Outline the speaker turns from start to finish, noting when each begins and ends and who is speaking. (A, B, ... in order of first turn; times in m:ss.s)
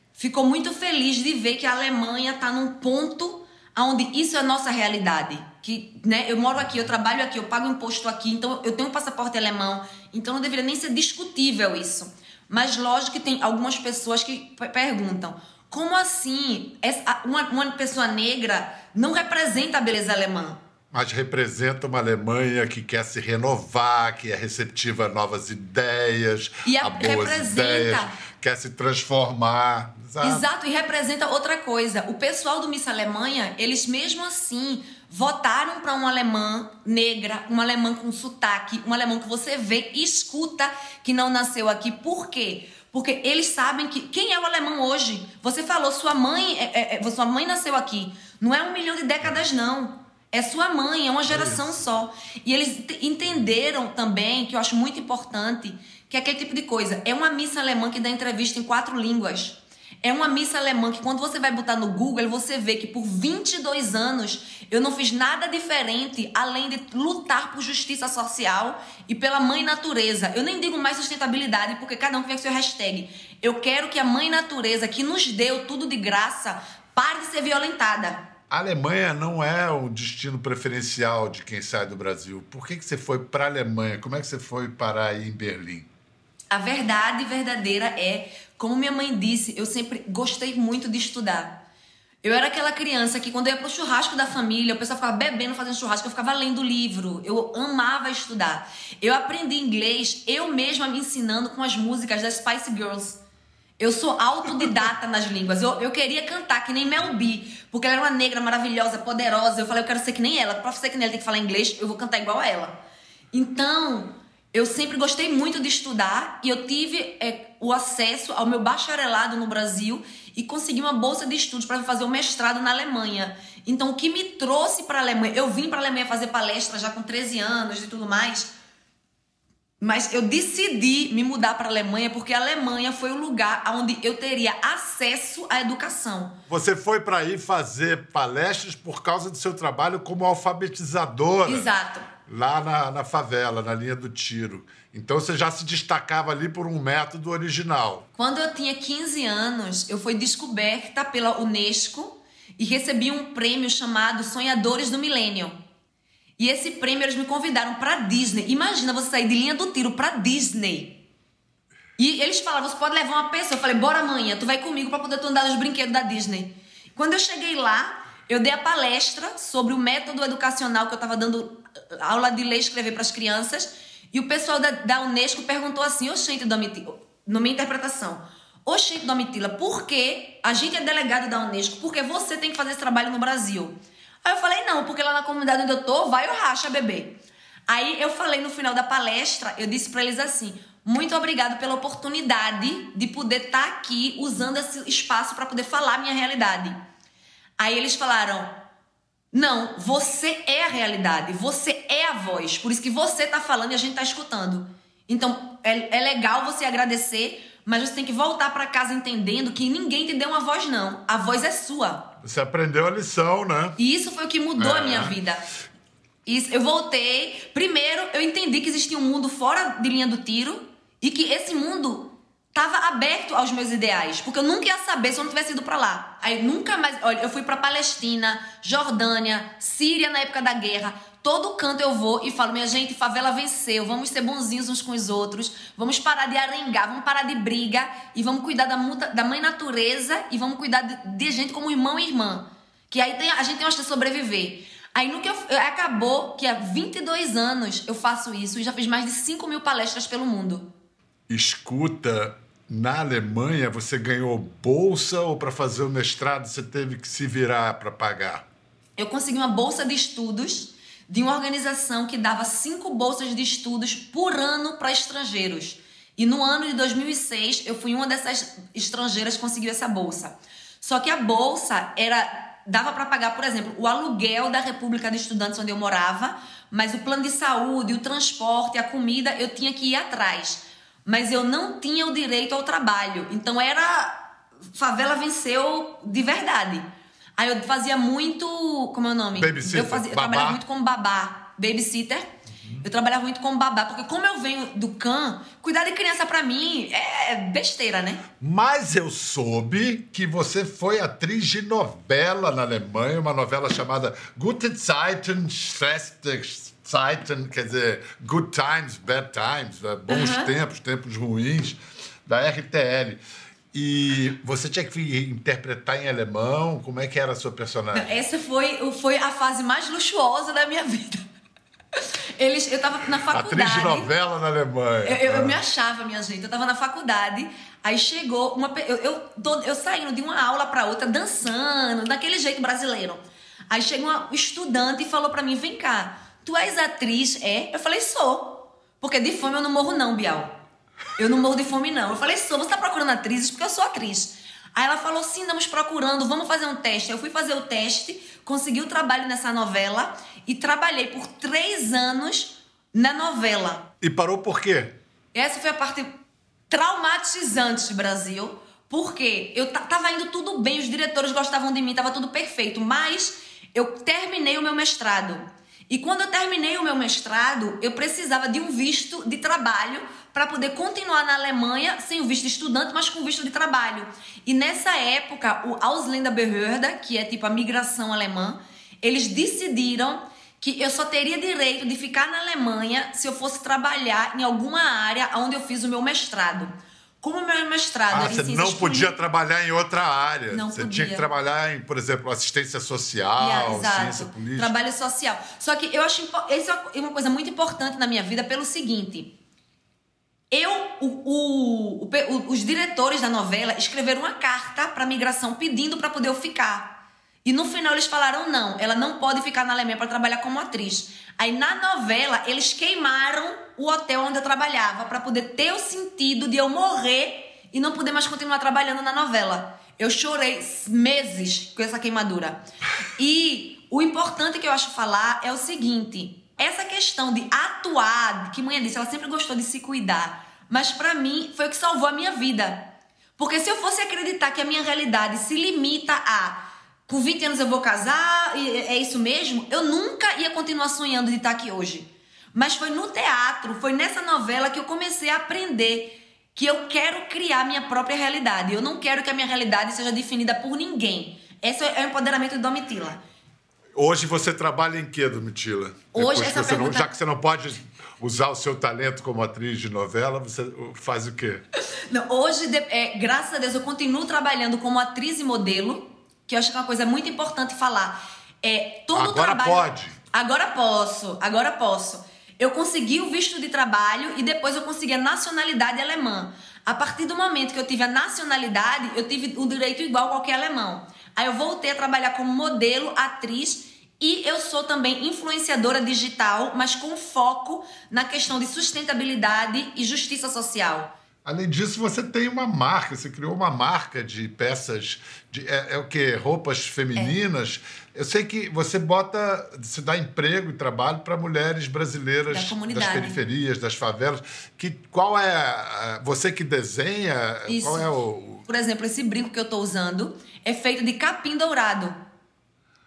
0:00.2-0:20.6 A
0:20.9-0:30.5 B
0:26.6-0:28.2 A
0:30.2-1:18.3 A
0:51.3-0:51.8 B
1:18.5-1:25.9 B
1:26.5-1:31.6 A
1:32.2-1:43.2 A
1:43.8-1:52.8 A
1:53.3-2:08.5 A
2:09.8-2:16.4 A
2:16.5-2:21.7 B
2:21.4-2:22.1 A
2:22.3-2:28.1 B
2:28.2-2:35.6 A
2:36.4-2:41.0 A
2:42.0-3:16.8 A
3:17.6-3:18.6 A
3:19.3-3:32.1 A
3:32.2-3:33.8 B
3:33.8-3:35.4 A
3:34.6-3:35.2 B
3:36.3-4:10.7 A
4:11.3-4:18.4 B
4:19.0-4:46.9 A
4:47.4-4:58.2 A
4:49.4-4:50.6 B
4:58.4-5:13.2 B
5:10.1-5:10.5 A
5:13.7-5:18.2 B
5:17.9-5:21.2 A
5:22.0-5:24.1 A
5:23.3-5:25.6 B
5:25.0-5:40.6 A
5:41.2-5:53.9 A
5:54.0-5:55.0 B
5:55.3-5:56.1 A
5:56.7-6:29.1 A
6:28.1-6:34.7 B
6:30.5-6:31.3 A
6:33.4-6:39.4 A
6:40.5-7:02.6 A
7:03.2-7:33.2 A
7:34.0-7:41.6 B
7:36.1-7:37.1 A
7:42.1-8:11.1 A
7:49.1-7:50.2 B
8:11.4-8:28.6 B
8:22.5-8:23.4 A
8:27.7-8:28.1 A
8:28.7-8:32.2 A